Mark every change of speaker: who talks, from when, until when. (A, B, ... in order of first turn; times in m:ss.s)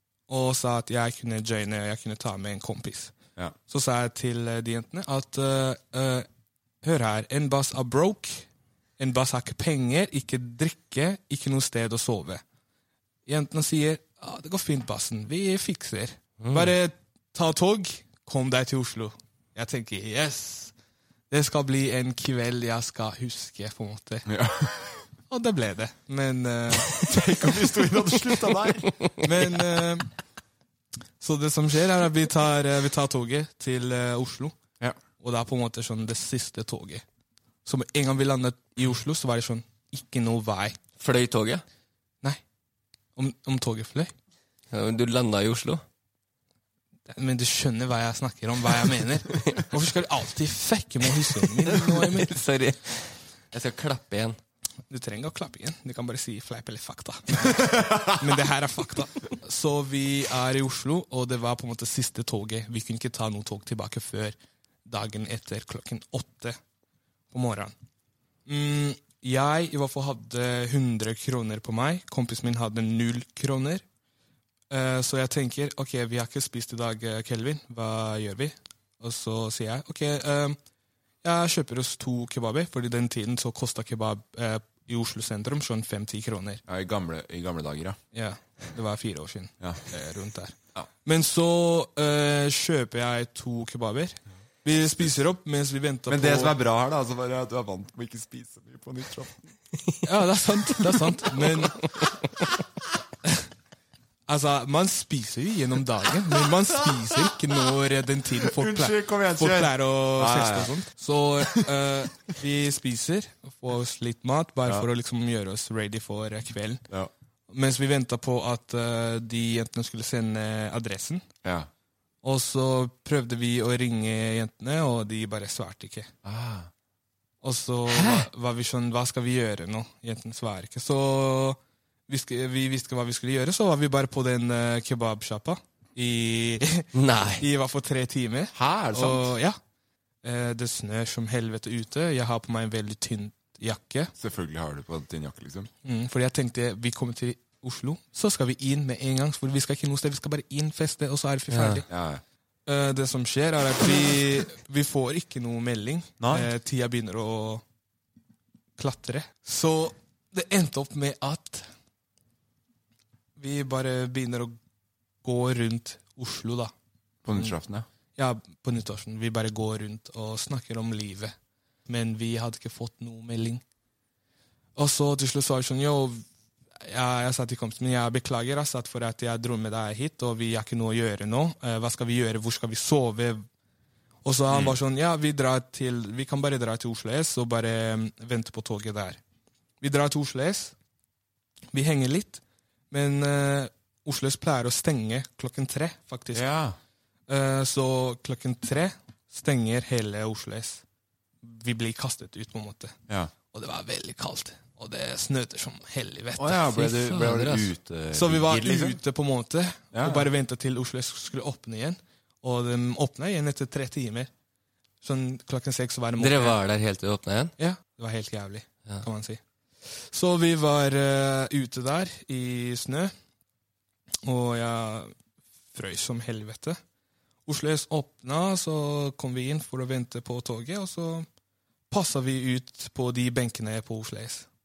0:00.3-0:03.1 A
0:03.7-0:06.3 A
0:06.8-0:08.4 A
0:09.0-0:12.4 A
0:13.2-0:20.7 A
0:16.4-0:16.7 B
0:21.3-0:24.2 A
0:24.2-0:25.0 C
0:25.3-0:27.0 A
0:26.8-0:28.9 C
0:29.2-0:30.1 A
0:31.2-0:34.6 A
0:35.2-0:37.0 A
0:37.6-0:40.8 A
0:41.0-0:41.6 B
0:43.2-0:44.1 A
0:44.7-0:45.8 B
0:47.1-0:52.3 A
0:51.5-0:54.4 B
0:54.9-1:04.3 A
0:57.4-0:58.4 C
1:04.8-1:06.6 A
1:07.3-1:07.7 A
1:08.5-1:13.8 A
1:14.7-1:20.6 A
1:21.2-1:26.6 A
1:26.7-1:28.0 C
1:28.1-1:36.5 A
1:36.1-1:39.4 C
1:40.0-1:41.8 A
1:44.3-1:56.8 A
1:46.8-1:47.3 C
1:48.4-1:50.7 C
1:51.4-1:51.7 C
1:57.5-2:01.2 A
2:01.4-2:01.7 C
2:02.2-2:06.1 A
2:06.2-2:06.7 C
2:07.4-2:16.9 A
2:16.9-2:17.4 B
2:17.4-2:19.6 A
2:18.5-2:19.3 C
2:20.2-2:24.1 A
2:24.2-2:25.7 C
2:25.8-2:31.8 A
2:31.5-2:31.8 B
2:31.9-2:32.2 C
2:32.7-2:37.6 A
2:36.2-2:36.5 C
2:38.8-2:41.7 A
2:43.4-2:44.6 A
2:45.2-2:46.7 A
2:47.2-2:47.9 C
2:48.2-2:51.3 A
2:51.9-2:53.6 A
2:54.8-2:56.2 A
2:56.8-3:03.4 A
3:04.2-3:09.2 A
3:04.5-3:04.8 C
3:09.8-3:10.7 A
3:11.7-3:16.4 A
3:16.3-3:16.8 C
3:17.3-3:20.8 A
3:21.4-3:23.0 A
3:23.5-3:26.9 A
3:26.4-3:29.0 C
3:26.8-3:27.7 B
3:28.1-3:34.3 A
3:29.9-3:30.3 C
3:35.0-3:36.6 A
3:36.2-3:37.5 B
3:37.6-3:43.1 A
3:44.2-3:45.1 A
3:45.7-3:46.8 A
3:47.4-3:51.3 A
3:51.9-3:54.5 A